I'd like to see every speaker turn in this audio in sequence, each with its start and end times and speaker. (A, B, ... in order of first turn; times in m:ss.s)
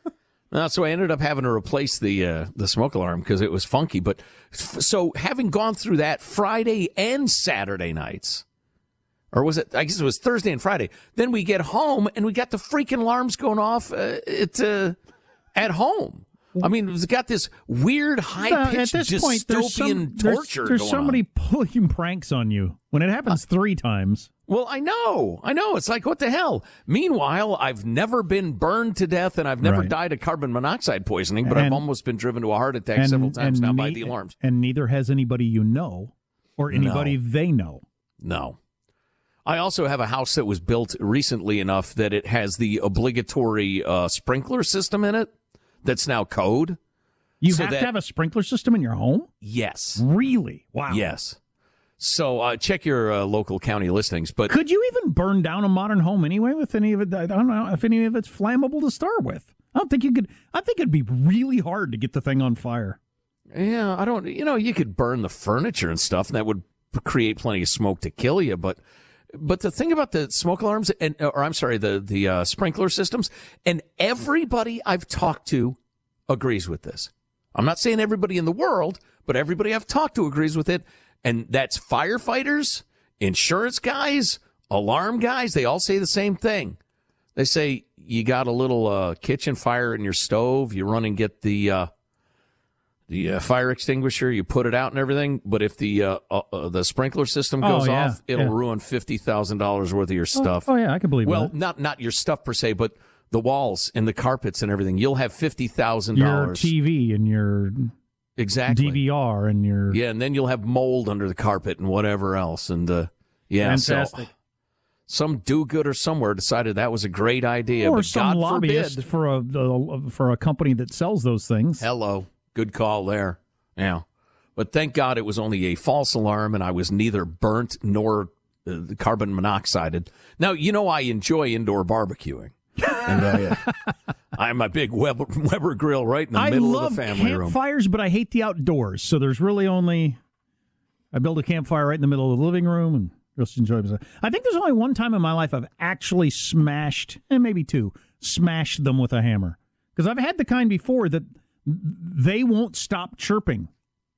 0:00.5-0:08.4 A
0:09.3-0:15.0 A
0:15.6-0:21.2 A
0:18.4-0:24.3 B
0:24.5-0:34.3 A
0:29.6-0:29.9 B
0:31.4-0:31.8 B
0:32.9-0:37.8 B
0:36.7-0:37.2 A
0:38.2-0:38.6 A
0:39.4-0:45.3 A
0:45.8-0:46.8 A
0:47.4-0:49.3 B
0:47.5-0:47.9 A
0:49.4-0:50.0 A
0:50.0-0:51.1 B
0:50.9-0:51.4 A
0:52.0-0:54.5 A
0:54.5-1:03.0 B
1:03.5-1:08.8 A
1:09.3-1:15.8 A
1:16.3-1:26.8 A
1:27.4-1:31.9 A
1:33.1-1:40.7 A
1:37.6-1:38.5 B
1:40.4-1:41.5 B
1:41.2-1:46.7 A
1:46.1-1:47.9 B
1:48.4-1:49.0 A
1:48.7-1:50.0 B
1:49.9-1:54.3 A
1:53.6-1:54.2 B
1:55.1-1:59.0 A
1:57.8-2:01.8 B
2:01.8-2:04.0 A
2:04.6-2:13.7 A
2:12.8-2:13.9 B
2:14.3-2:17.6 A
2:16.3-2:20.2 B
2:21.1-2:33.7 B